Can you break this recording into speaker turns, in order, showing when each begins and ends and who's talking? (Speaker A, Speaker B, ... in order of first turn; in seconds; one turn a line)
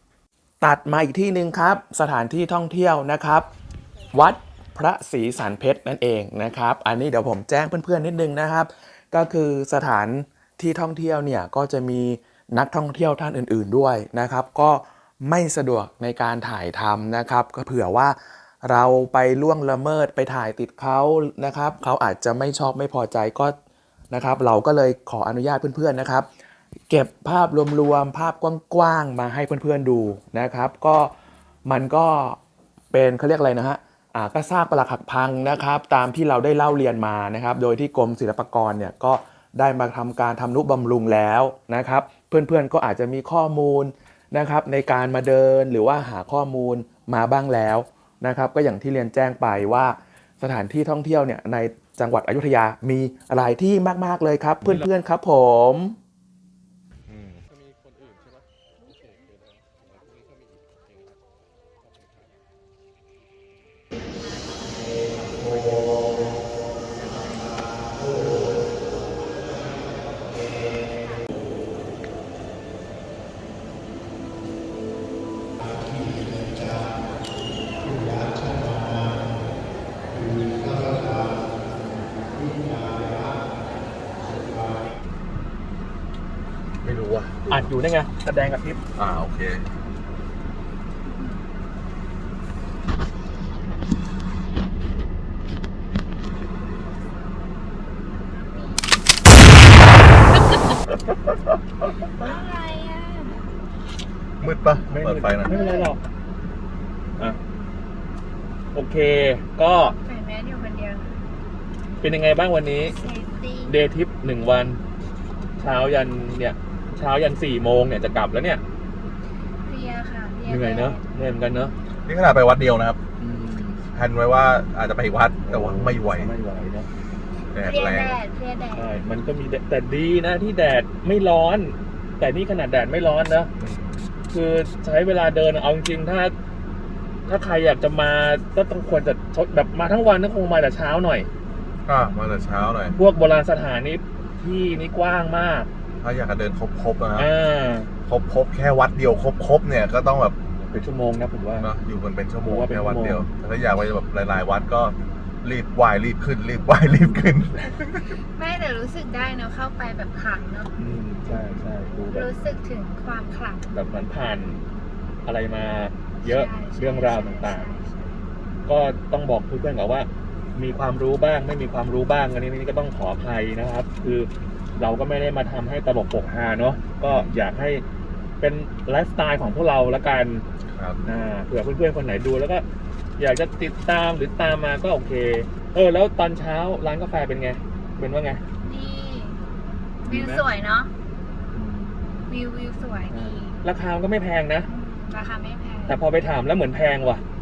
Speaker A: 0.6-3.5
Speaker A: 4.1-23.5
Speaker A: 24.1-26.3
Speaker A: 26.9-31.1
Speaker A: 31.6-32.4
Speaker A: 32.9-56.0
Speaker B: 57.1-57.6
Speaker B: 80.5-81.0
Speaker B: 86.8-87.5
Speaker C: 87.5-88.8
Speaker B: 89.0-89.6
Speaker D: 98.5-98.8
Speaker D: 102.1-103.5
Speaker B: 104.4-105.6
Speaker C: 104.8-106.0
Speaker D: 105.4-105.9
Speaker C: 108.7-109.9
Speaker D: 109.9-111.2
Speaker C: 112.0-112.9
Speaker D: 112.8-113.8
Speaker C: 113.7-114.8
Speaker C: 115.6-118.6
Speaker D: 119.7-121.0
Speaker C: 120.5-121.7
Speaker B: 122.0-123.0
Speaker C: 123.2-123.8
Speaker B: 123.9-126.3
Speaker C: 125.5-126.9
Speaker B: 127.5-128.2
Speaker D: 127.6-128.9
Speaker C: 128.7-133.5
Speaker B: 133.6-134.0
Speaker C: 134.3-136.3
Speaker C: 137.3-141.3
Speaker B: 141.8-142.9
Speaker C: 142.8-145.7
Speaker B: 146.0-147.3
Speaker C: 147.2-147.9
Speaker B: 148.1-150.4
Speaker C: 150.7-151.7
Speaker B: 151.6-158.2
Speaker C: 152.4-153.2
Speaker D: 158.3-160.7
Speaker C: 160.8-162.3
Speaker D: 162.1-163.7
Speaker C: 163.7-164.6
Speaker C: 165.2-167.7
Speaker D: 166.2-168.2
Speaker C: 168.7-177.8
Speaker B: 177.0-177.3
Speaker C: 178.4-180.4
Speaker B: 180.7-181.0
Speaker C: 181.0-182.6
Speaker C: 183.2-188.4
Speaker D: 188.6-189.4
Speaker D: 190.0-190.9
Speaker C: 190.1-190.4
Speaker C: 191.5-192.2
Speaker D: 192.3-193.6
Speaker C: 193.1-194.7
Speaker D: 194.6-195.9
Speaker C: 195.9-197.2